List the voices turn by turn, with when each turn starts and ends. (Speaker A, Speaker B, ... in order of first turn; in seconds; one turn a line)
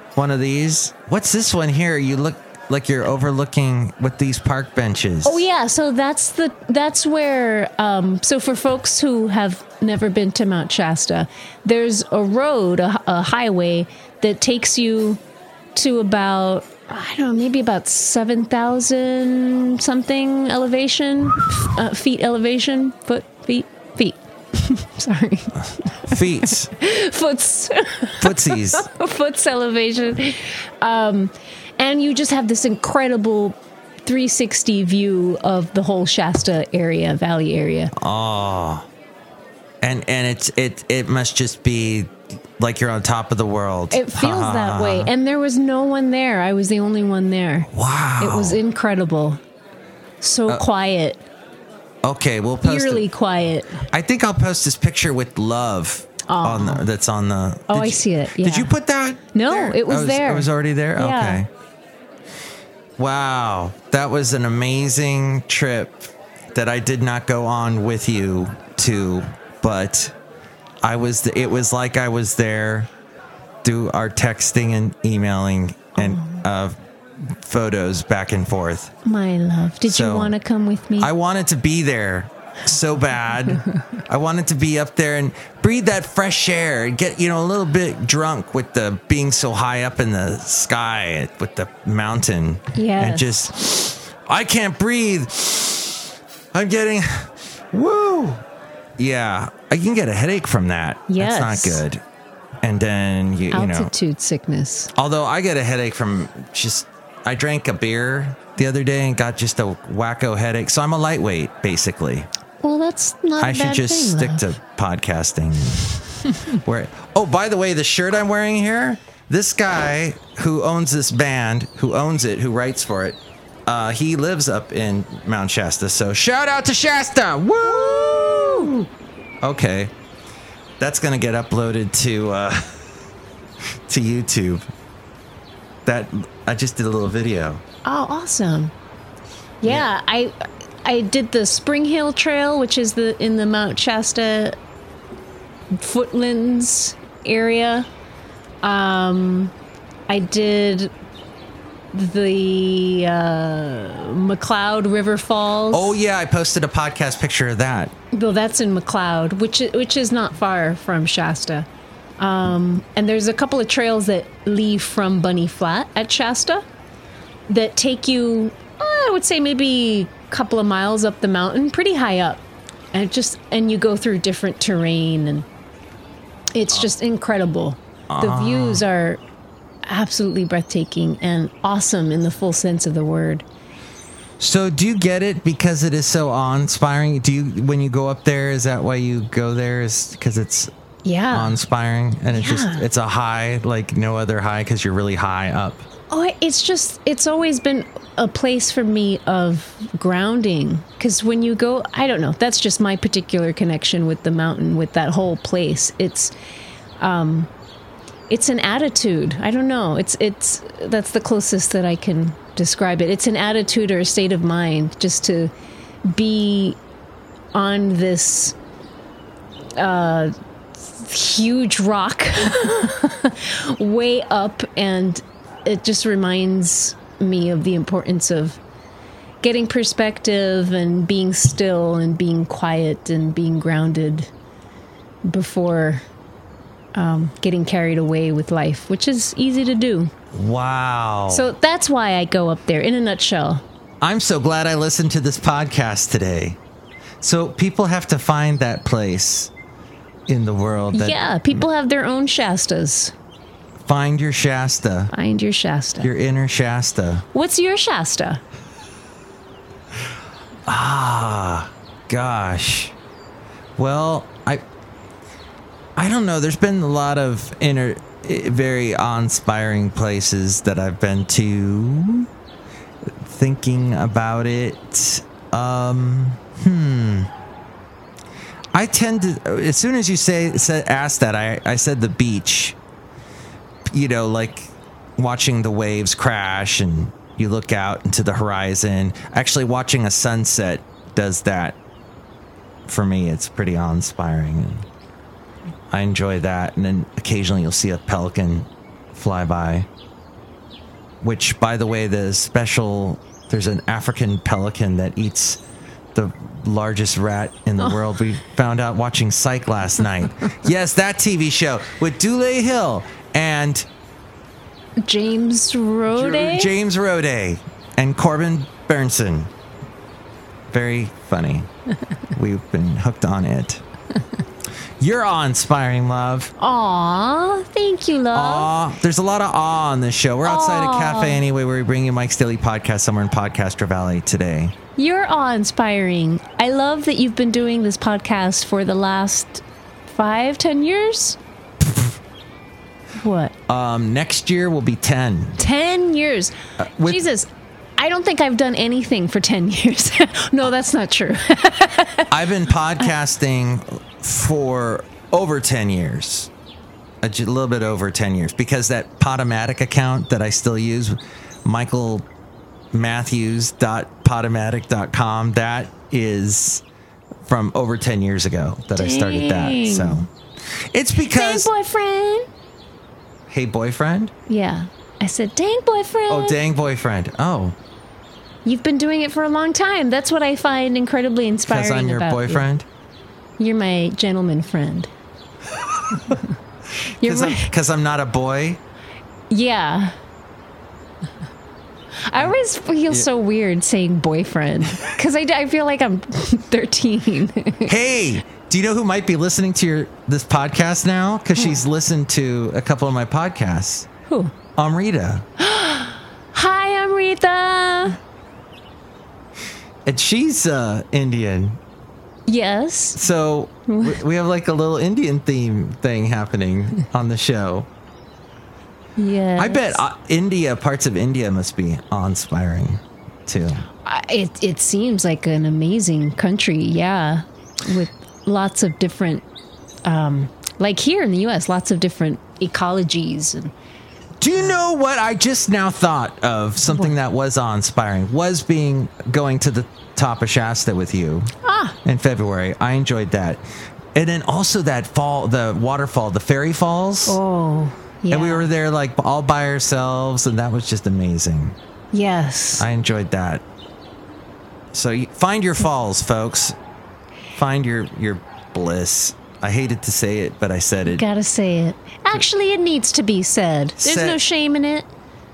Speaker A: 0.2-5.5
Speaker B: 5.2-15.2
Speaker B: 15.8-37.9
Speaker A: 26.1-26.7
Speaker A: 28.2-28.9
Speaker A: 38.0-38.9
Speaker A: 39.8-45.1
Speaker B: 43.9-47.7
Speaker A: 47.7-48.6
Speaker B: 48.2-49.4
Speaker B: 50.2-51.2
Speaker A: 52.0-53.1
Speaker B: 52.6-53.8
Speaker A: 53.9-61.5
Speaker B: 56.3-56.9
Speaker B: 57.7-58.7
Speaker B: 59.3-61.4
Speaker A: 63.0-70.2
Speaker A: 70.8-72.9
Speaker A: 73.6-76.8
Speaker B: 76.0-76.4
Speaker A: 77.3-78.9
Speaker B: 79.0-81.1
Speaker A: 79.8-80.3
Speaker A: 81.0-98.4
Speaker B: 92.8-93.5
Speaker A: 99.0-102.0
Speaker B: 101.1-101.8
Speaker A: 102.6-103.9
Speaker B: 103.5-104.9
Speaker A: 105.0-112.3
Speaker B: 112.6-114.5
Speaker A: 113.4-116.0
Speaker A: 116.5-128.9
Speaker B: 127.7-128.7
Speaker A: 129.4-129.9
Speaker A: 130.8-132.7
Speaker A: 133.9-134.7
Speaker A: 135.8-137.6
Speaker B: 137.8-138.7
Speaker B: 139.6-144.6
Speaker B: 145.7-147.9
Speaker B: 148.6-149.5
Speaker B: 150.1-150.9
Speaker B: 151.9-156.0
Speaker A: 155.7-157.9
Speaker B: 158.1-161.7
Speaker B: 162.2-166.6
Speaker B: 167.5-175.5
Speaker B: 176.5-179.2
Speaker A: 178.1-178.9
Speaker B: 179.8-183.4
Speaker A: 184.4-190.7
Speaker B: 191.0-191.6
Speaker A: 191.3-195.9
Speaker B: 192.3-192.8
Speaker B: 196.1-206.3
Speaker B: 207.0-207.5
Speaker B: 208.3-215.5
Speaker B: 216.1-216.8
Speaker B: 217.5-218.6
Speaker B: 219.8-220.3
Speaker B: 220.8-228.6
Speaker B: 229.4-234.3
Speaker B: 235.2-236.0
Speaker B: 236.9-240.1
Speaker A: 240.3-241.5
Speaker B: 241.3-243.6
Speaker A: 244.0-246.6
Speaker A: 247.2-249.5
Speaker A: 250.3-251.7
Speaker B: 250.9-253.1
Speaker A: 253.8-255.1
Speaker B: 255.1-256.1
Speaker A: 256.0-257.2
Speaker B: 257.3-258.4
Speaker A: 260.7-262.9
Speaker A: 263.8-264.6
Speaker A: 266.0-272.3
Speaker A: 273.2-277.3
Speaker A: 278.7-282.8
Speaker A: 283.9-291.8
Speaker A: 292.9-294.9
Speaker A: 295.9-299.9
Speaker A: 301.2-305.6
Speaker A: 306.1-313.9
Speaker B: 315.0-316.7
Speaker A: 316.1-319.5
Speaker A: 320.7-321.7
Speaker A: 322.3-323.8
Speaker A: 325.0-326.5
Speaker B: 326.6-328.7
Speaker A: 328.3-334.7
Speaker B: 330.4-331.4
Speaker B: 335.0-341.4
Speaker B: 343.2-343.6
Speaker A: 343.7-345.6
Speaker B: 345.6-352.3
Speaker A: 346.8-347.2
Speaker A: 352.3-356.5
Speaker A: 357.2-362.3
Speaker A: 362.9-366.8
Speaker A: 367.4-370.3
Speaker B: 368.9-370.3
Speaker A: 370.9-371.7
Speaker B: 371.2-372.5
Speaker A: 373.5-374.3
Speaker B: 374.5-376.6
Speaker A: 376.3-377.8
Speaker B: 378.6-382.7
Speaker A: 381.7-382.9
Speaker B: 383.6-385.1
Speaker B: 387.2-387.7
Speaker A: 387.2-388.8
Speaker B: 389.5-390.1
Speaker B: 392.3-397.9
Speaker A: 397.9-404.1
Speaker B: 404.3-404.5
Speaker A: 404.8-405.4
Speaker B: 405.6-408.2
Speaker A: 410.1-411.8
Speaker B: 412.5-413.2
Speaker A: 413.2-417.9
Speaker B: 413.9-414.2
Speaker B: 419.2-420.0
Speaker A: 419.6-423.9
Speaker B: 424.1-429.4
Speaker B: 430.1-433.7
Speaker A: 434.4-441.5
Speaker B: 436.9-437.1
Speaker B: 441.6-442.0
Speaker A: 442.1-443.6
Speaker A: 444.1-447.4
Speaker B: 447.3-448.7
Speaker A: 448.3-451.8
Speaker B: 452.1-452.9
Speaker A: 452.8-453.6
Speaker A: 454.9-456.8
Speaker A: 457.5-461.2
Speaker B: 461.1-465.1
Speaker A: 464.0-464.4